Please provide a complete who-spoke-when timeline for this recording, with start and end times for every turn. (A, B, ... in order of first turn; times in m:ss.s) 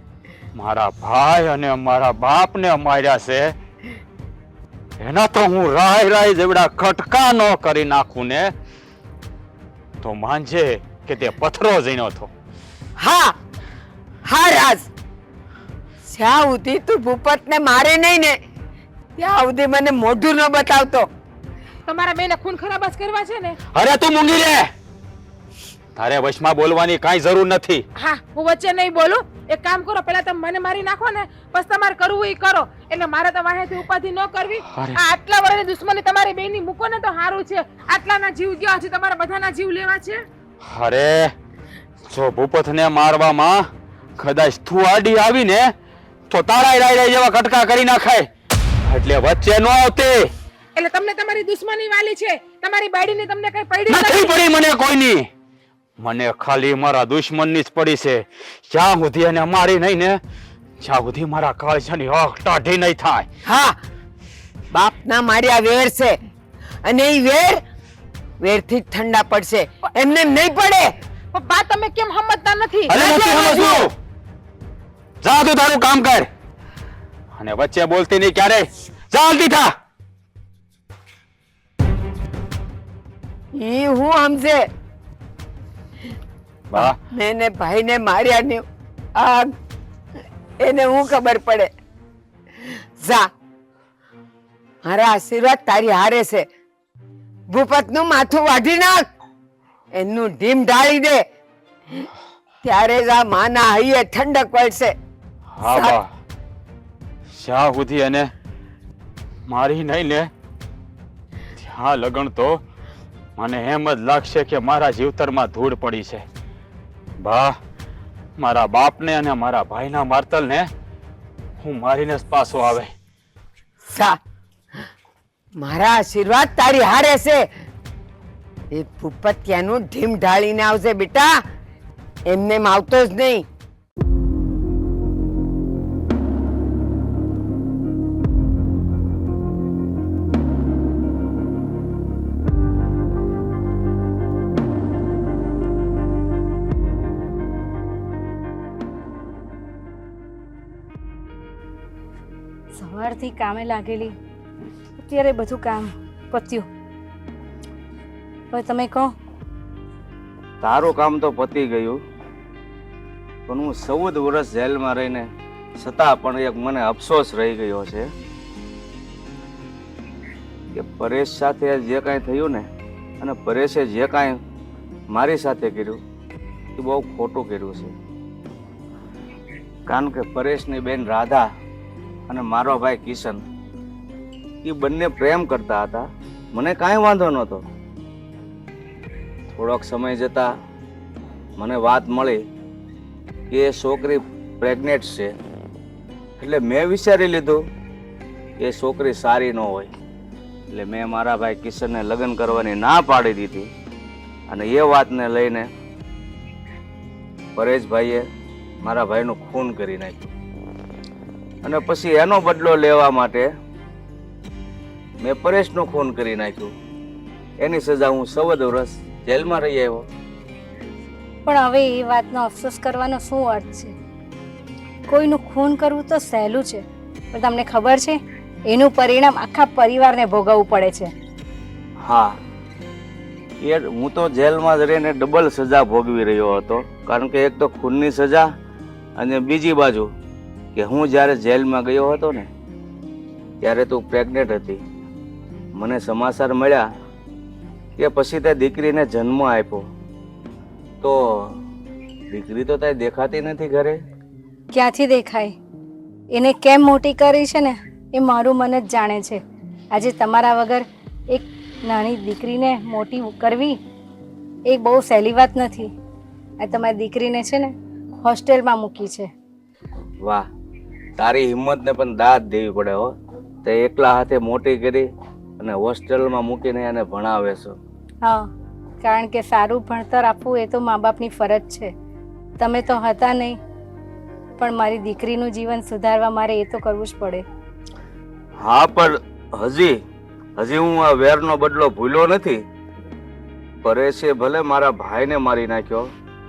0:00.6-0:03.6 A
0:05.0-0:08.5 A
0:10.0-0:12.3 A
0:13.0-0:13.4 B
0:14.3-0:14.9 B
0:16.0-0:18.4 B
0:19.2-0:21.1 B
0:21.9-0:23.6 C
0:23.7-0:24.7 A
0:26.0-0:27.8 A
0:28.0-0:40.2 C
0:34.7-0:35.0 A
0:40.6-0:41.3 A
0:42.1-0:43.7 A
0:44.2-0:45.7 A
0:46.3-0:48.3 A
0:48.8-0:50.3 A
0:50.8-0:54.4 C
0:53.9-0:55.3 A
0:56.0-1:00.2 A
1:00.8-1:03.3 A
1:03.4-1:03.8 B
1:04.7-1:06.2 B
1:06.8-1:07.6 B
1:08.4-1:10.9 B
1:11.3-1:13.8 C
1:12.9-1:13.9 A
1:15.2-1:16.3 A
1:17.4-1:19.7 A
1:23.6-1:24.7 B
1:26.7-1:28.6 B
1:29.2-1:29.5 B
1:30.6-1:31.7 B
1:33.0-1:33.3 B
1:34.8-1:36.5 B
1:37.5-1:39.0 B
1:40.0-1:41.2 B
1:42.6-1:44.9 B
1:45.5-1:46.1 A
1:45.7-1:46.0 B
1:47.3-1:48.3 A
1:49.5-1:50.3 A
1:51.6-1:52.6 A
1:53.4-1:56.2 A
1:57.2-1:57.6 A
1:58.4-2:00.7 A
2:01.6-2:02.9 A
2:05.6-2:07.5 B
2:08.7-2:11.4 B
2:12.3-2:13.4 B
2:32.8-2:34.1 D
2:35.0-2:36.7 D
2:38.5-2:39.1 D
2:40.6-2:42.0 E
2:43.5-2:45.3 E
2:45.8-2:48.1 E
2:50.7-2:52.7 E
2:53.2-2:54.4 E
2:55.1-2:56.0 E
2:56.8-2:57.9 E
2:59.9-3:01.5 E
3:02.3-3:03.4 E
3:04.6-3:07.6 E
3:09.5-3:10.5 E
3:11.6-3:12.4 E
3:13.5-3:15.3 E
3:16.4-3:17.6 E
3:18.6-3:19.9 E
3:20.7-3:23.7 E
3:24.5-3:25.7 E
3:27.6-3:28.3 E
3:28.8-3:30.3 E
3:31.6-3:33.5 E
3:35.2-3:36.7 E
3:37.6-3:40.0 E
3:41.4-3:43.9 D
3:45.1-3:48.2 D
3:48.7-3:51.1 D
3:52.0-3:52.3 E
3:53.6-3:58.5 E
3:59.2-4:00.1 E
4:00.8-4:02.5 E
4:03.6-4:04.8 E
4:05.8-4:06.8 E
4:08.0-4:09.8 E
4:11.0-4:11.6 E
4:12.3-4:14.0 E
4:14.7-4:15.5 D
4:16.3-4:19.4 D
4:19.9-4:23.8 D
4:24.7-4:25.9 D
4:26.6-4:29.3 D
4:31.2-4:33.1 E
4:33.6-4:35.1 E
4:35.6-4:37.8 E
4:39.0-4:41.9 D
4:42.6-4:43.6 D
4:44.6-4:47.4 D
4:48.6-4:50.0 E
4:50.6-4:52.6 E
4:53.8-4:56.1 E